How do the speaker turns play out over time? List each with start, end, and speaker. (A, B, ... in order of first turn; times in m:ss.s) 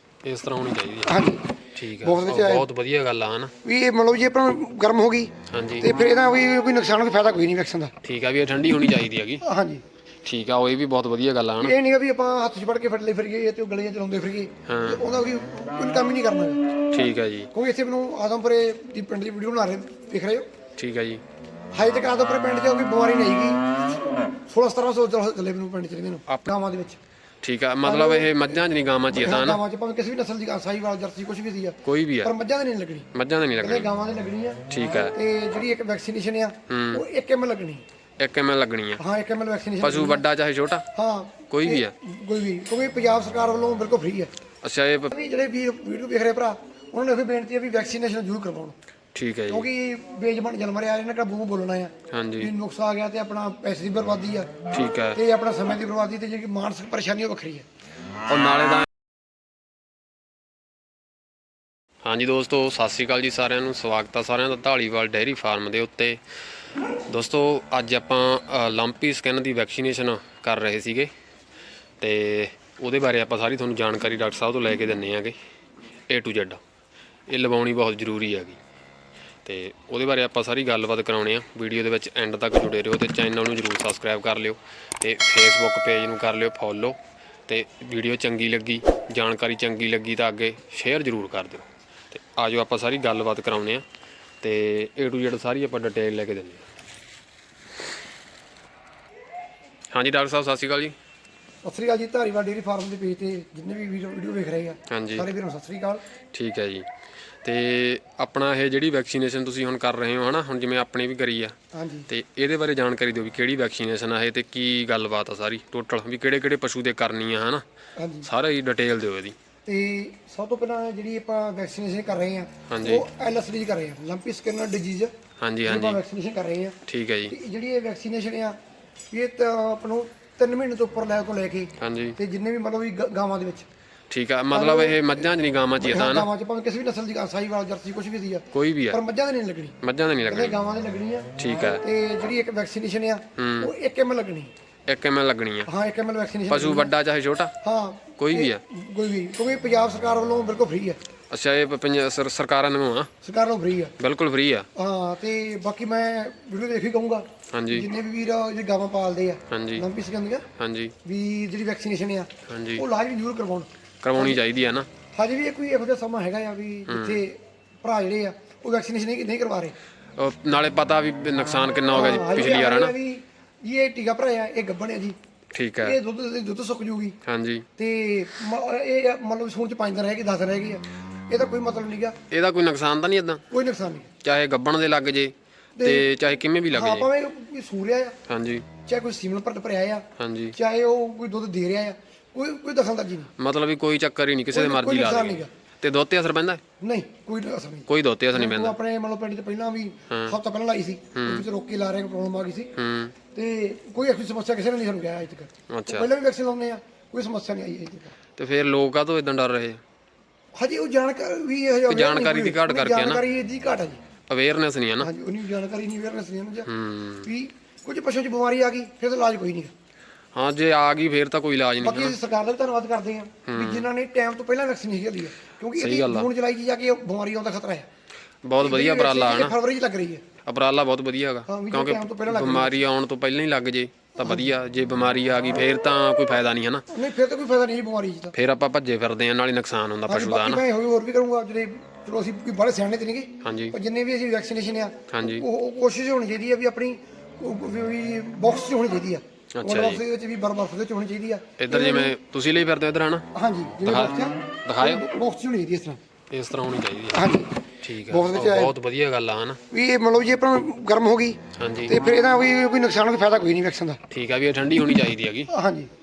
0:00.2-0:01.2 A
0:01.0-0:02.7 B
0:01.7-0:03.5 A
0:03.6-0:07.9 B
0:05.5-0:05.9 A
0:08.0-0:09.4 A
0:09.4-0:09.8 B
0:10.2-0:11.7 A
0:11.6-0:16.6 B
0:14.7-0:15.0 A
0:16.9-0:17.5 A
0:17.5-0:20.5 B
0:20.8-0:21.2 A
0:21.7-0:23.6 B
0:24.4-0:27.0 B
0:26.3-0:26.5 A
0:27.4-0:29.6 A
0:27.8-0:33.1 B
0:31.8-0:32.3 A
0:33.1-0:33.9 A
0:33.6-0:37.8 B
0:34.7-0:35.1 A
0:36.7-0:37.0 A
0:38.2-0:39.0 A
0:39.0-0:40.2 B
0:39.8-0:40.8 A
0:40.9-0:44.3 B
0:41.5-0:41.9 A
0:44.6-0:45.1 A
0:45.1-0:48.7 B
0:49.1-0:49.7 A
0:49.5-0:54.6 B
0:52.1-0:52.5 A
0:54.7-0:55.2 A
0:55.1-0:57.6 B
0:58.2-0:58.8 A
1:02.0-1:06.2 A
1:07.1-1:11.1 A
1:12.0-1:15.4 A
1:16.1-1:16.6 A
1:17.3-1:18.6 A
1:19.4-1:33.8 A
1:34.4-1:36.6 A
1:39.9-1:41.0 A
1:41.6-1:46.0 B
1:44.9-1:45.3 A
1:46.3-1:46.9 A
1:47.4-1:51.6 A
1:51.7-1:52.1 B
1:52.1-1:57.6 A
1:58.0-1:58.3 B
1:58.2-1:59.3 A
1:59.6-2:05.1 B
2:02.7-2:03.0 A
2:05.4-2:06.0 A
2:05.6-2:06.8 B
2:06.9-2:07.3 A
2:07.3-2:08.6 B
2:09.1-2:13.6 B
2:11.8-2:12.2 A
2:14.1-2:16.3 A
2:14.5-2:15.0 B
2:15.8-2:24.5 B
2:18.5-2:19.0 A
2:19.8-2:20.6 A
2:21.4-2:21.8 A
2:23.4-2:23.7 A
2:24.9-2:25.7 A
2:25.6-2:26.9 B
2:26.5-2:27.5 A
2:27.6-2:31.0 B
2:28.2-2:28.6 A
2:31.3-2:33.1 A
2:33.2-2:33.9 B
2:34.0-2:34.7 A
2:34.8-2:40.4 B
2:37.5-2:37.9 A
2:39.5-2:39.8 A
2:40.6-2:40.9 A
2:41.0-2:44.4 B
2:42.5-2:42.8 A
2:44.0-2:44.9 A
2:45.1-2:49.7 B
2:46.9-2:47.2 A
2:50.2-2:52.9 A
2:51.9-2:55.2 B
2:55.5-2:56.0 A
2:55.8-2:57.2 B
2:57.2-2:57.6 A
2:57.8-3:02.2 B
3:02.3-3:03.4 A
3:03.5-3:04.1 B
3:04.2-3:07.1 A
3:05.8-3:06.1 B
3:06.7-3:08.2 B
3:08.3-3:08.6 A
3:08.8-3:13.3 B
3:10.2-3:10.5 A
3:13.4-3:16.6 A
3:14.5-3:15.5 B
3:16.8-3:22.7 B
3:17.9-3:18.8 A
3:20.1-3:20.4 A
3:21.1-3:21.4 A
3:22.8-3:23.1 A
3:23.3-3:28.1 B
3:25.7-3:26.1 A
3:28.4-3:29.8 A
3:30.6-3:34.0 B
3:31.9-3:33.2 A
3:34.3-3:35.1 A
3:35.0-3:36.7 B
3:36.6-3:37.3 A
3:37.2-3:39.7 B
3:40.3-3:42.2 A
3:41.8-3:47.9 B
3:43.5-3:43.9 A
3:45.8-3:46.3 A
3:48.4-3:49.6 A
3:48.6-3:50.2 B
3:50.4-3:56.8 A
3:51.5-3:52.8 B
3:54.2-3:54.4 B
3:56.9-3:58.3 B
3:58.3-4:00.6 A
4:00.1-4:12.1 B
4:03.4-4:03.8 A
4:05.1-4:05.5 A
4:09.6-4:10.0 A
4:11.6-4:13.2 A
4:13.3-4:16.0 B
4:13.8-4:15.0 A
4:16.3-4:17.2 A
4:17.1-4:17.5 B
4:17.8-4:19.6 A
4:18.1-4:18.7 B
4:19.7-4:24.0 B
4:21.6-4:22.0 A
4:24.1-4:25.5 A
4:25.5-4:25.9 B